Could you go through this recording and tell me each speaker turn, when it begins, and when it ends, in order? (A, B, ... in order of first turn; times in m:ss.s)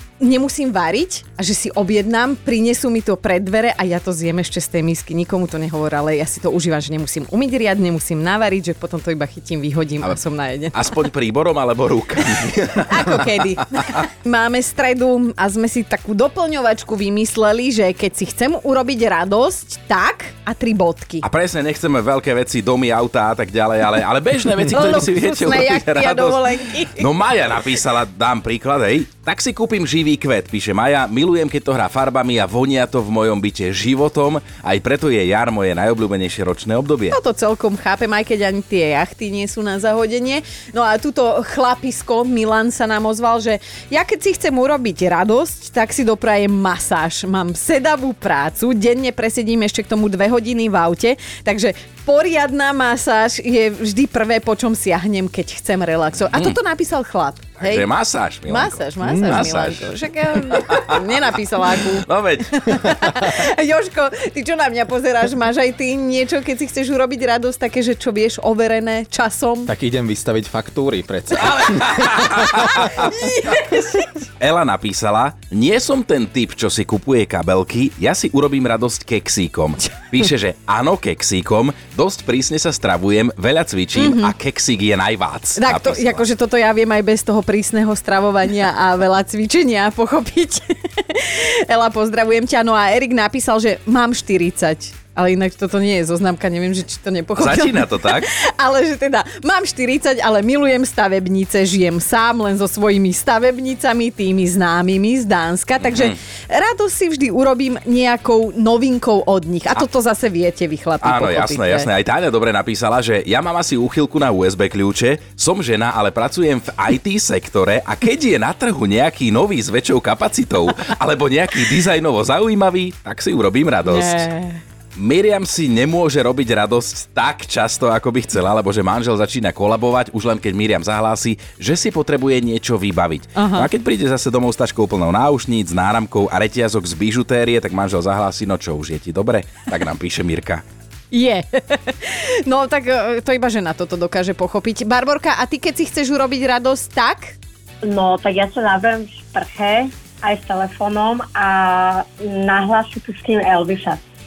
0:00.2-0:10.8 A
0:10.7-0:13.9 B
0:12.9-0:21.2 A
0:21.2-0:26.4 B
0:24.7-0:27.1 A
0:27.0-0:37.2 B
0:37.1-0:57.9 A
0:57.6-1:01.0 B
0:58.5-1:09.7 A
0:59.0-0:59.4 C
1:02.0-1:03.1 B
1:09.7-1:13.0 C
1:11.4-1:13.1 B
1:12.9-1:14.2 A
1:13.7-1:26.2 B
1:24.0-1:24.4 A
1:25.6-1:51.9 A
1:37.4-1:38.3 B
1:51.0-2:04.3 B
2:03.9-2:04.6 A
2:05.0-2:20.6 B
2:13.4-2:13.7 A
2:21.1-2:27.4 A
2:27.8-2:34.0 D